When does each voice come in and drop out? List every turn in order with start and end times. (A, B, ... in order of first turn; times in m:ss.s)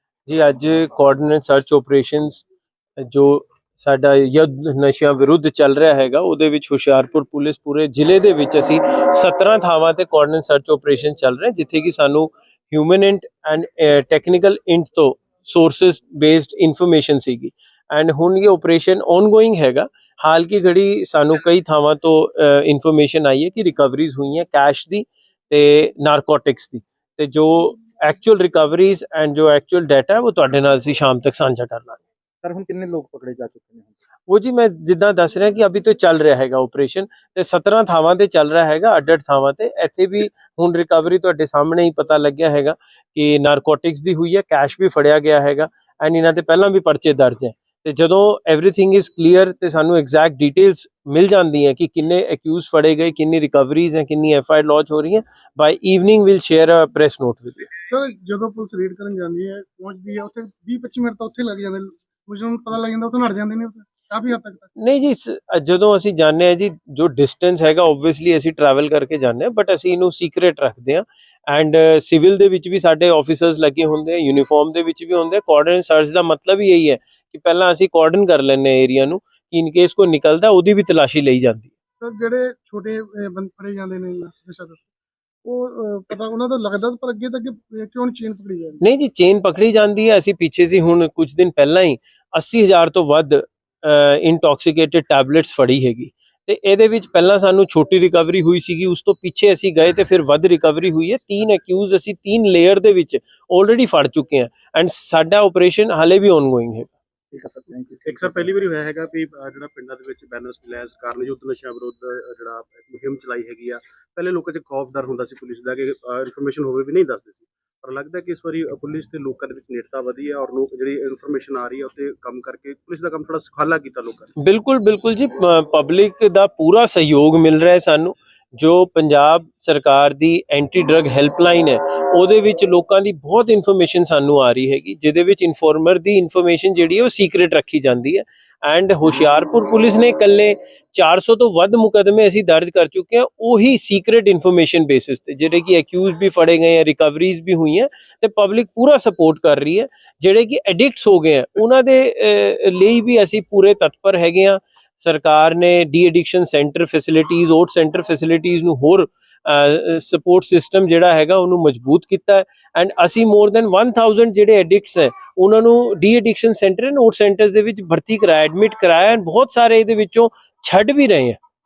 0:00.3-0:02.5 A
0:03.0-0:32.0 A
0:32.4-0:34.0 B
0:34.3-0:57.7 A
0:57.9-1:04.7 C
1:04.8-1:21.7 A
1:22.0-1:24.9 C
1:25.4-1:28.8 C
1:28.8-1:46.9 A
1:47.3-1:48.5 B
1:48.1-2:04.3 D
2:04.4-2:51.4 A